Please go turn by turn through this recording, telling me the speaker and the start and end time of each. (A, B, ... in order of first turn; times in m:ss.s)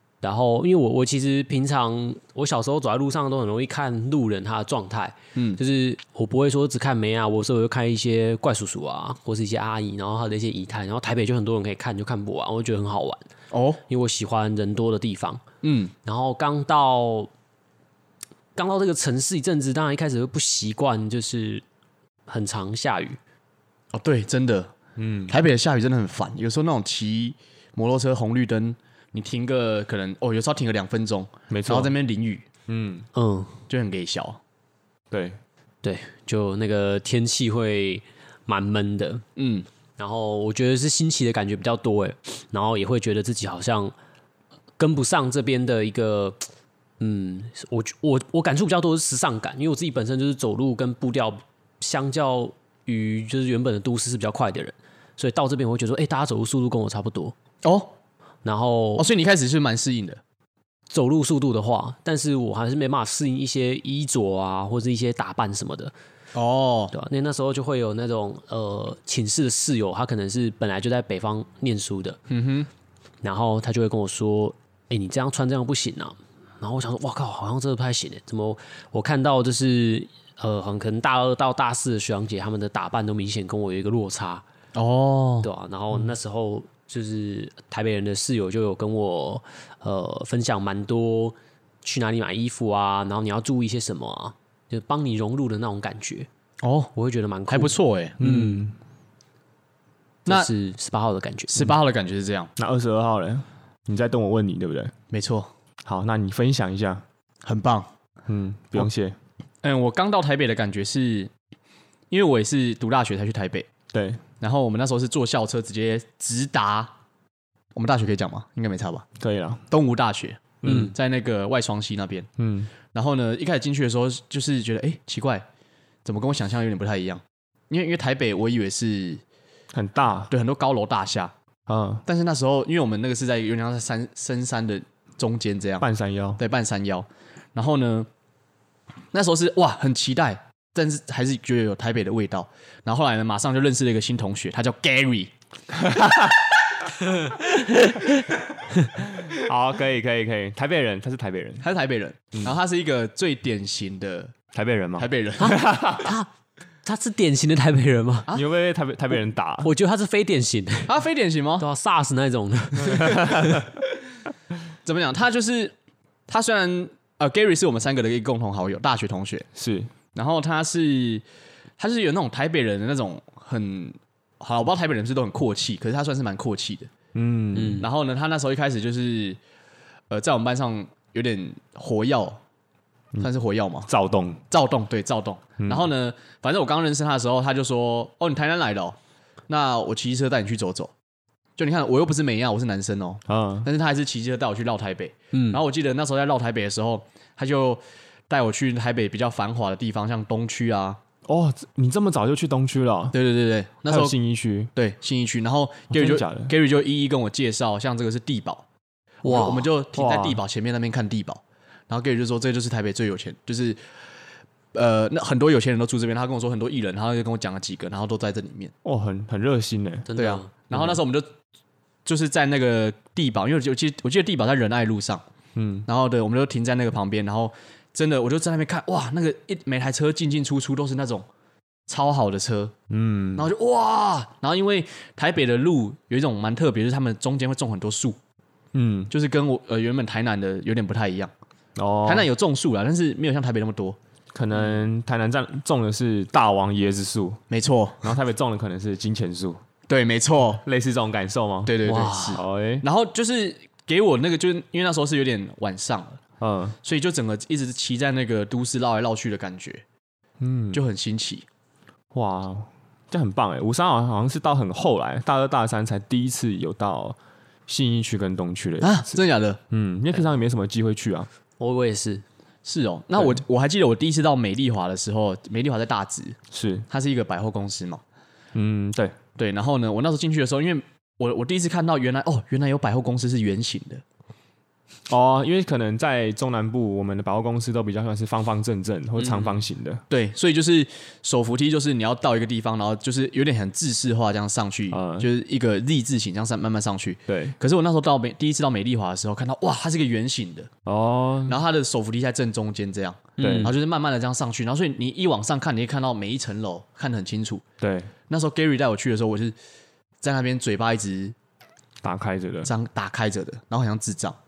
0:00.2-0:13.2 A
0:13.5-0:13.8 B
0:13.9-0:15.4 A
0:15.6-0:15.9 B
0:16.0-0:17.3 A
0:18.6-0:21.6 A
0:22.3-0:23.2 A
0:23.9-0:24.7 B
0:25.0-0:25.3 C
0:25.3-0:32.4 B
0:31.5-0:31.9 C
0:32.7-0:33.1 C
0:33.1-0:33.6 A
0:33.7-0:34.4 B
0:35.1-0:35.4 C
0:35.8-0:39.2 A
0:39.4-0:39.6 B
0:40.0-0:43.9 A
0:44.8-0:46.5 A
0:47.0-0:57.3 A
0:57.6-0:57.9 B
0:58.4-0:59.1 A
0:59.0-1:00.2 B
1:00.9-1:05.9 A
1:06.3-1:06.9 B
1:06.9-1:12.2 A
1:12.3-1:12.7 B
1:13.2-1:24.4 A
1:24.7-1:25.5 B
1:25.4-1:36.3 A
1:36.6-1:36.9 B
1:36.9-1:38.6 A
1:37.5-1:38.2 B
1:38.2-1:38.8 C
1:40.2-1:41.7 A
1:41.5-1:42.5 B
1:42.6-1:44.9 C
1:45.1-1:45.5 B
1:45.8-1:47.0 C
1:47.4-1:47.9 B
1:48.3-1:49.2 C
1:49.6-1:51.3 B
1:52.1-1:53.7 B
1:53.9-1:54.2 C
1:54.4-1:56.9 B
1:57.7-1:59.0 B
1:59.2-1:59.6 C
1:59.7-2:02.3 B
2:00.6-2:00.9 C
2:00.6-2:00.9 A
2:02.4-2:02.7 C
2:02.9-2:05.4 B
2:06.0-2:09.2 B
2:09.7-2:10.3 C
2:10.3-2:11.3 B
2:11.7-2:12.0 C
2:12.0-2:15.8 B
2:15.8-2:16.4 C
2:16.4-2:18.1 B
2:19.1-2:25.3 B
2:25.7-2:26.4 C
2:29.2-2:31.6 C
2:31.6-2:34.3 B
2:34.5-2:36.1 C
2:35.0-2:35.6 B
2:35.4-2:36.3 A
2:36.8-2:38.3 A
2:38.3-2:39.7 C
2:39.6-2:40.9 A
2:40.8-2:41.6 B
2:41.6-2:43.6 A
2:42.8-2:43.7 C
2:44.8-2:45.7 B
2:46.3-2:49.5 B
2:49.6-2:49.9 C
2:50.1-2:51.2 B
2:51.8-2:56.9 B
2:57.1-2:57.8 C
2:57.5-2:57.8 A
2:57.8-2:59.4 B
3:00.1-3:02.4 B
3:03.2-3:03.9 B
3:03.9-3:04.4 C
3:04.5-3:09.0 B
3:05.6-3:05.9 C
3:09.5-3:10.9 B
3:11.6-3:21.0 B
3:13.3-3:13.7 C
3:15.3-3:15.6 A
3:21.2-3:23.2 C
3:23.1-3:24.2 B
3:23.9-3:24.7 C
3:24.7-3:28.6 B
3:25.9-3:26.5 C
3:29.2-3:33.8 B
3:29.2-3:29.7 A
3:29.9-3:30.4 C
3:34.7-3:38.7 B
3:38.8-3:40.1 C
3:40.1-3:40.5 A
3:40.2-3:41.3 B
3:42.0-3:45.2 B
3:45.5-3:45.9 C
3:45.9-3:51.2 B
3:51.9-3:52.7 B
3:52.9-3:53.5 C
3:53.4-3:58.2 B
3:58.7-3:59.1 C
3:59.1-4:01.3 B
4:01.8-4:02.3 C
4:02.0-4:04.0 B
4:04.3-4:07.4 C
4:07.5-4:08.1 B
4:08.0-4:09.6 C
4:09.9-4:10.6 B
4:10.6-4:11.8 C
4:11.6-4:16.2 B
4:11.8-4:12.4 A
4:12.3-4:12.8 C
4:16.4-4:16.8 C
4:16.8-4:19.8 B
4:20.4-4:20.8 C
4:20.7-4:21.4 B
4:22.1-4:29.2 C
4:28.8-4:29.6 B
4:29.7-4:31.3 C
4:31.6-4:32.2 A
4:32.6-4:36.4 B
4:36.5-4:36.8 C
4:36.9-4:38.0 B
4:38.5-4:39.2 C
4:39.4-4:44.0 B
4:45.1-4:50.0 C
4:49.2-4:49.5 B
4:50.1-5:00.7 B
4:54.9-4:55.3 C
4:57.3-4:57.6 C
5:00.8-5:01.6 C
5:01.5-5:07.6 B
5:03.4-5:03.7 A
5:03.4-5:03.7 C
5:07.8-5:08.1 C
5:08.3-5:09.5 B
5:10.2-5:11.3 B
5:12.0-5:12.7 C
5:12.6-5:14.4 B